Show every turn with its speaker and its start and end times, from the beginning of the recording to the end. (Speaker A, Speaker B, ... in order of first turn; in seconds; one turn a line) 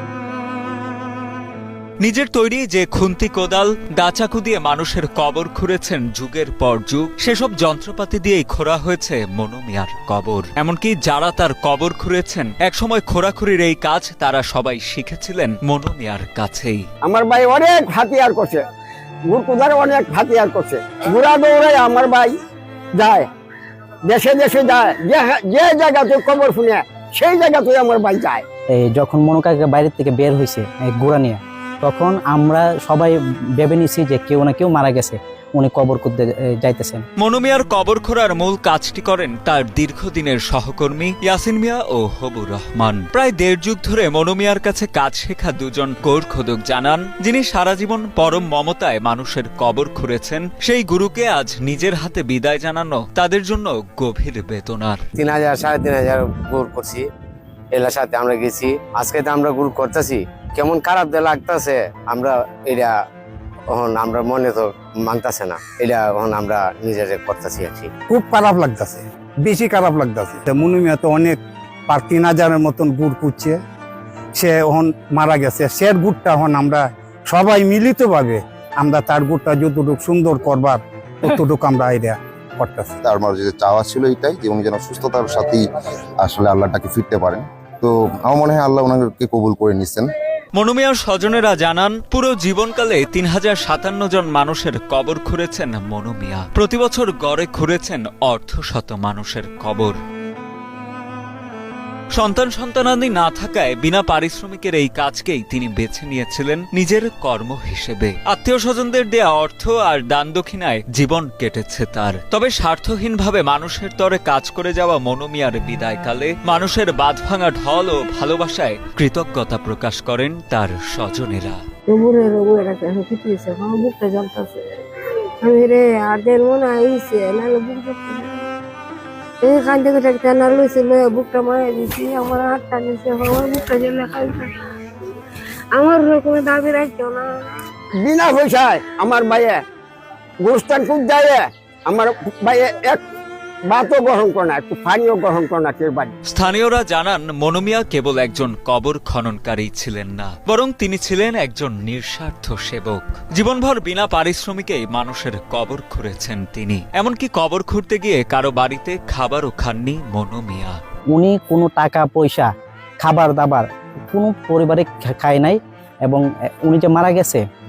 Speaker A: 2.0-16.8
Speaker B: 17.1-18.6
Speaker B: 19.3-22.3
Speaker B: 22.9-23.3
Speaker B: 24.1-28.4
Speaker C: 28.8-37.0
Speaker A: 37.2-55.0
Speaker D: 55.2-57.0
Speaker D: 57.7-62.9
Speaker D: 63.7-67.9
Speaker E: 68.1-73.6
Speaker E: 74.3-83.0
Speaker F: 83.0-85.7
Speaker F: 86.2-90.1
Speaker A: 90.5-100.0
Speaker A: 102.1-121.6
Speaker G: 121.9-124.6
Speaker G: 125.4-128.3
Speaker G: 129.4-134.5
Speaker G: 135.7-137.5
Speaker B: 138.0-139.6
Speaker B: 140.4-143.0
Speaker B: 143.7-146.1
Speaker A: 146.3-160.8
Speaker C: 161.1-162.5
Speaker C: 163.0-167.4